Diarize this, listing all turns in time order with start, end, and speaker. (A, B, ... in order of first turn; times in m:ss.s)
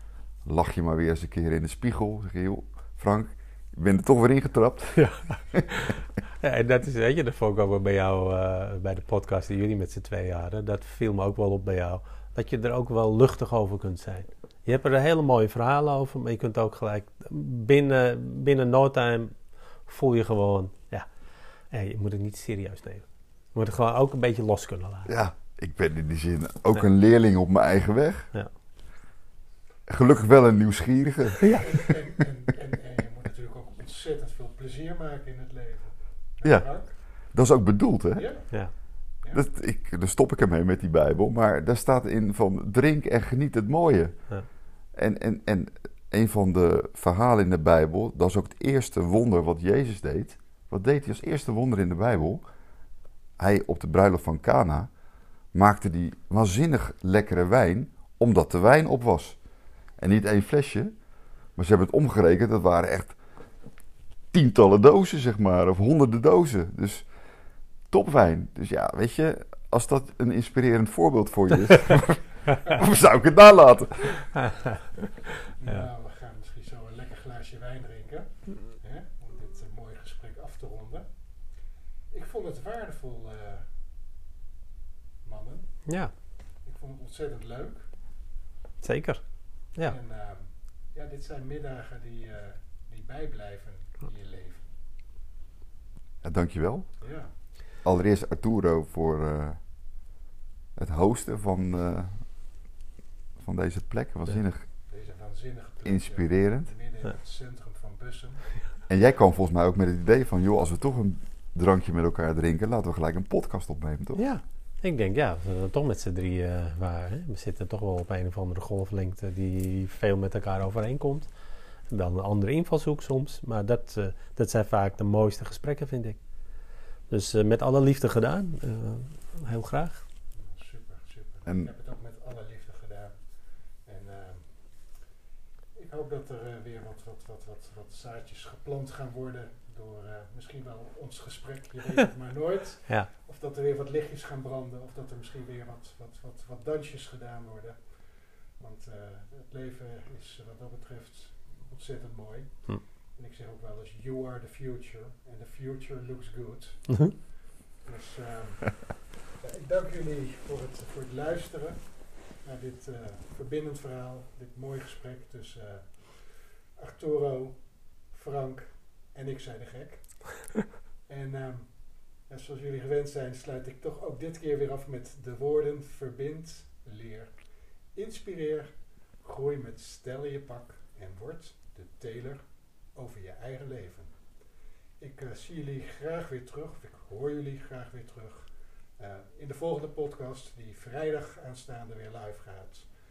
0:00.4-0:05.6 A
0:04.9-0:21.1 B
0:21.7-0:25.1 B
0:25.1-0:28.3 A
0:29.9-0:31.9 A
0:31.5-0:37.0 C
0:36.4-0:38.3 A
0:38.1-0:39.4 C
0:39.3-0:44.3 A
0:44.9-0:52.4 A
0:53.4-0:54.9 A
0:55.5-0:59.4 A
1:00.0-1:00.9 A
1:01.6-1:03.2 A
1:04.3-1:07.1 A
1:07.9-1:14.3 A
1:14.3-1:15.0 B
1:15.6-1:21.1 C
1:22.1-1:23.7 C
1:25.2-1:25.9 C
1:25.8-1:26.1 B
1:26.6-1:27.9 C
1:28.8-1:30.0 B
1:29.8-1:34.7 C
1:36.2-1:36.9 A
1:37.0-1:37.3 C
1:37.8-1:39.6 A
1:40.8-1:42.2 A
1:43.4-1:44.6 A
1:44.8-1:48.7 C
1:45.8-1:46.7 A
1:48.9-1:54.3 A
1:54.2-2:01.3 B
2:01.9-2:06.2 B
2:07.1-2:10.0 B
2:10.4-2:15.0 C
2:11.4-2:11.7 A
2:15.7-3:04.3 C
3:05.0-3:12.9 C